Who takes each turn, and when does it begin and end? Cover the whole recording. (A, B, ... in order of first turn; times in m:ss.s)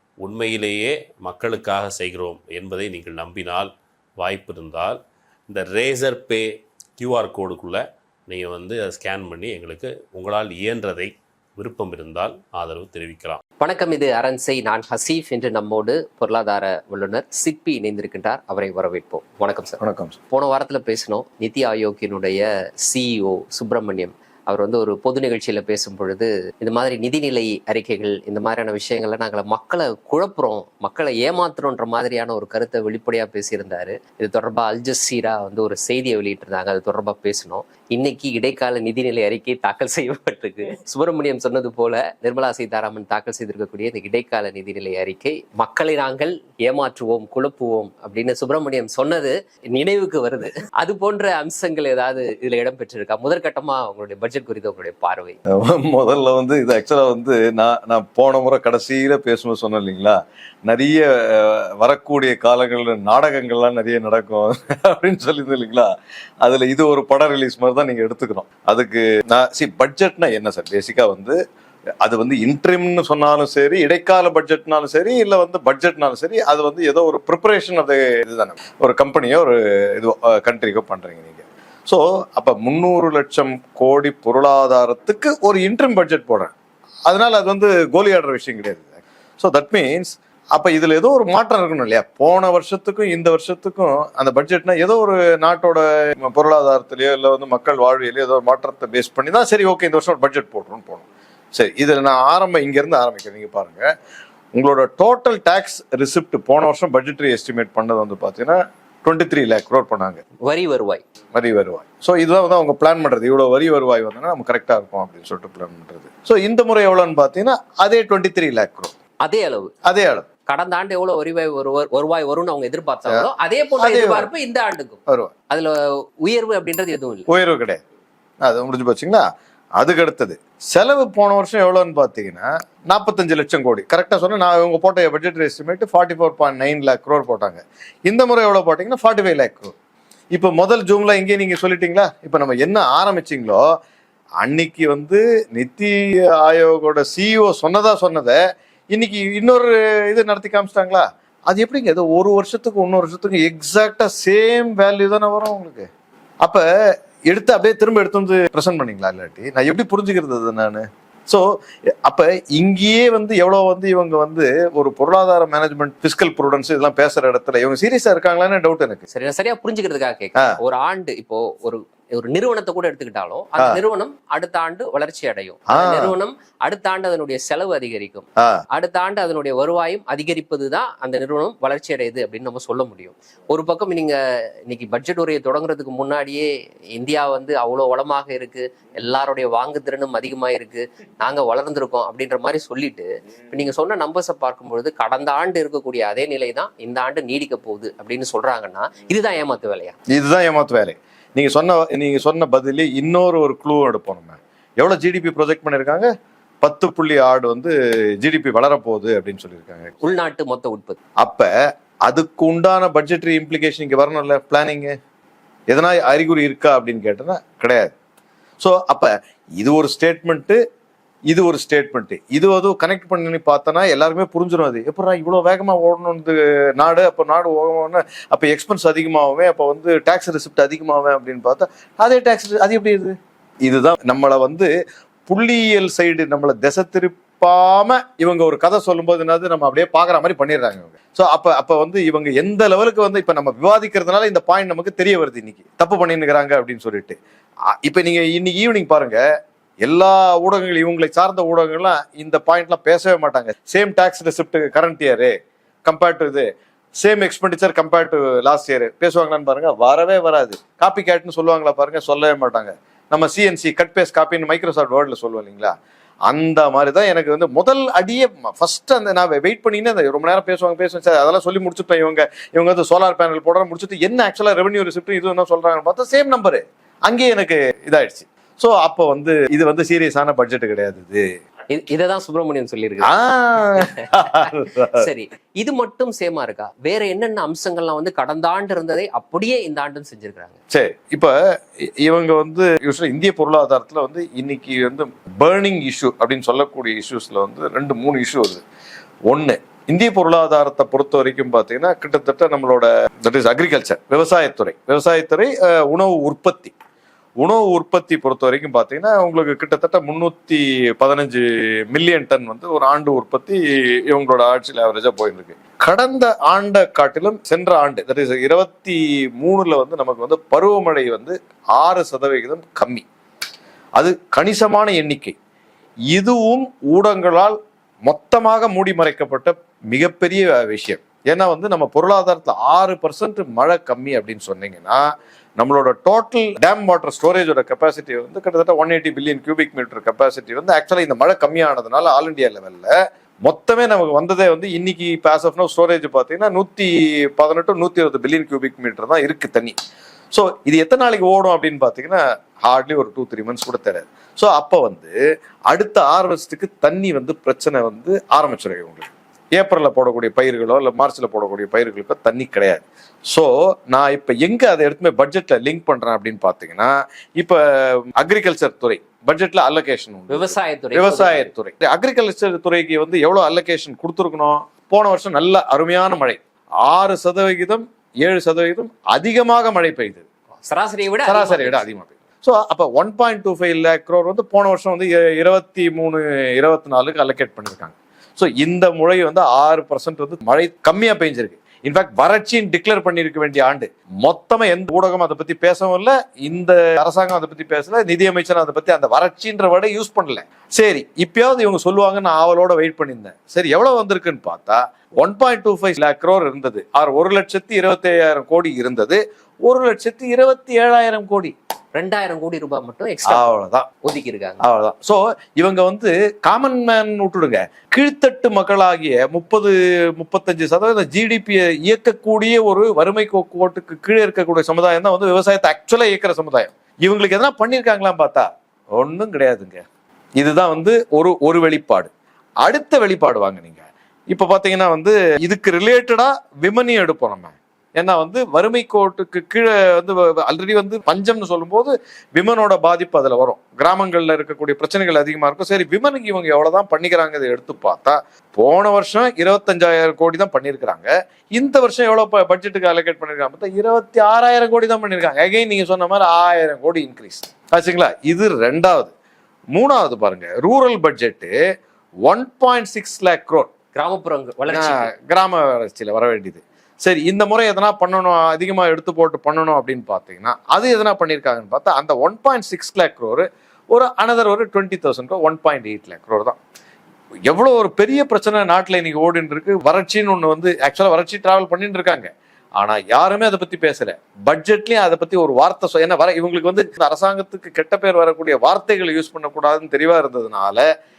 0:00.2-0:13.4 A
0:13.6-0:55.4 B
0:19.8-0:20.2 C
0:55.5-1:05.9 C
1:06.4-1:11.4 C
1:12.0-1:26.5 C
1:27.1-1:43.9 C
1:44.5-1:50.2 C
1:50.4-1:51.0 B
1:51.3-1:58.9 C
1:59.2-1:59.7 B
1:59.8-2:00.2 C
2:00.5-2:07.3 B
2:03.8-2:04.3 C
2:07.3-2:07.8 C
2:08.4-2:09.2 C
2:09.8-2:19.7 C
2:20.3-2:23.6 C
2:24.4-2:28.4 C
2:28.9-2:35.9 C
2:37.3-2:41.4 C
2:42.0-2:49.0 C
2:49.1-3:19.9 B
2:55.7-2:56.1 C
2:58.4-2:58.6 C
3:20.1-3:26.1 C
3:26.6-3:30.0 C
3:30.0-3:31.0 B
3:31.2-3:31.5 C
3:32.1-3:35.0 C
3:35.7-3:37.9 C
3:38.6-3:40.6 C
3:41.3-3:54.7 C
3:55.3-4:07.2 C
4:07.7-4:09.2 C
4:09.8-4:25.7 C
4:26.3-4:41.2 C
4:41.7-4:43.1 B
4:43.0-4:45.0 C
4:43.8-4:50.6 B
4:50.7-4:51.4 C
4:52.0-4:58.6 C
4:59.3-5:06.7 C
5:07.4-5:23.0 C
5:24.0-5:25.4 C
5:26.1-5:35.0 C
5:35.6-5:42.9 C
5:43.4-5:49.7 C
5:50.3-5:55.1 C
5:55.7-6:20.2 C
6:10.3-6:11.5 B
6:20.6-6:21.8 B
6:21.2-6:51.5 C
6:52.0-6:54.6 B
6:53.2-6:53.9 C
6:54.6-7:09.8 C
7:10.4-7:12.1 C
7:12.6-7:39.1 C
7:39.7-7:41.5 C
7:42.2-7:43.7 C
7:43.9-7:45.1 B
7:44.7-7:56.6 C
7:57.5-8:10.8 C